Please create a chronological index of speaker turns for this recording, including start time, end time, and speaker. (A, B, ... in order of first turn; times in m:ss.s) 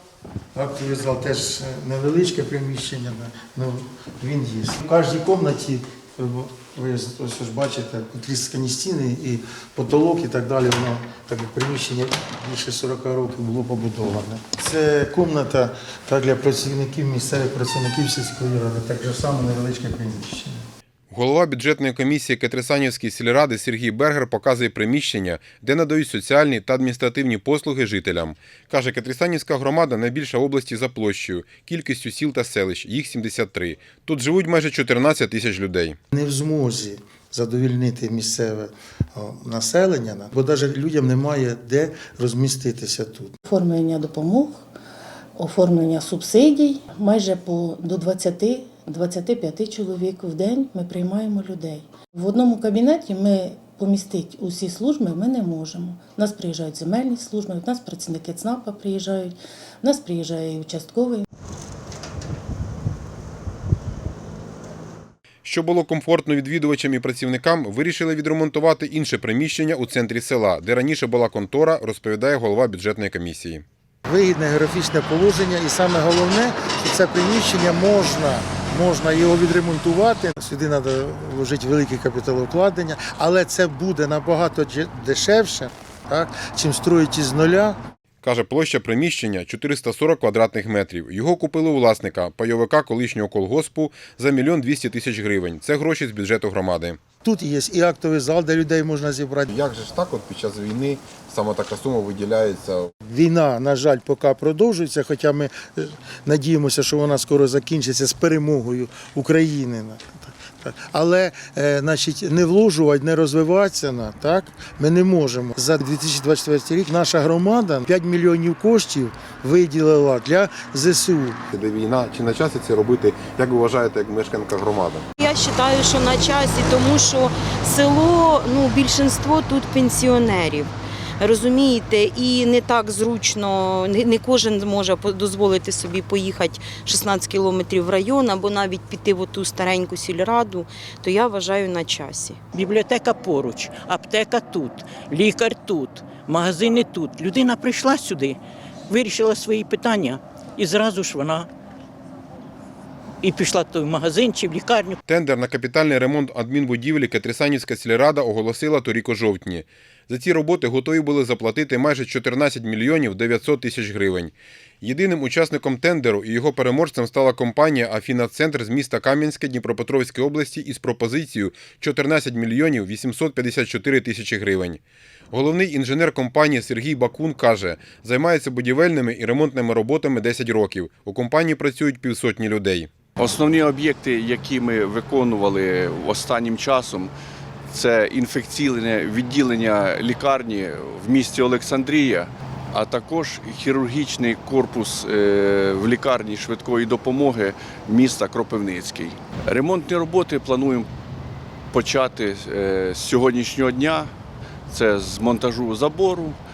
0:00.5-0:20.6 A
0:21.1-0:36.0 B
0:36.1-0:43.3 A
0:43.4-0:44.7 C
0:45.4-1:01.2 C
1:05.4-1:13.6 B
1:14.1-1:27.8 A
1:28.2-1:37.0 B
1:37.2-1:39.5 A
1:39.5-1:42.9 B
1:43.0-2:01.4 A
2:01.5-2:05.1 B
2:05.2-2:22.4 D
2:22.6-2:28.4 E
2:28.9-2:31.3 E
2:33.2-2:35.0 E
2:35.1-3:02.9 B
3:03.2-3:07.1 F
3:07.7-3:20.9 F
3:21.7-3:24.1 F
3:24.7-3:26.4 F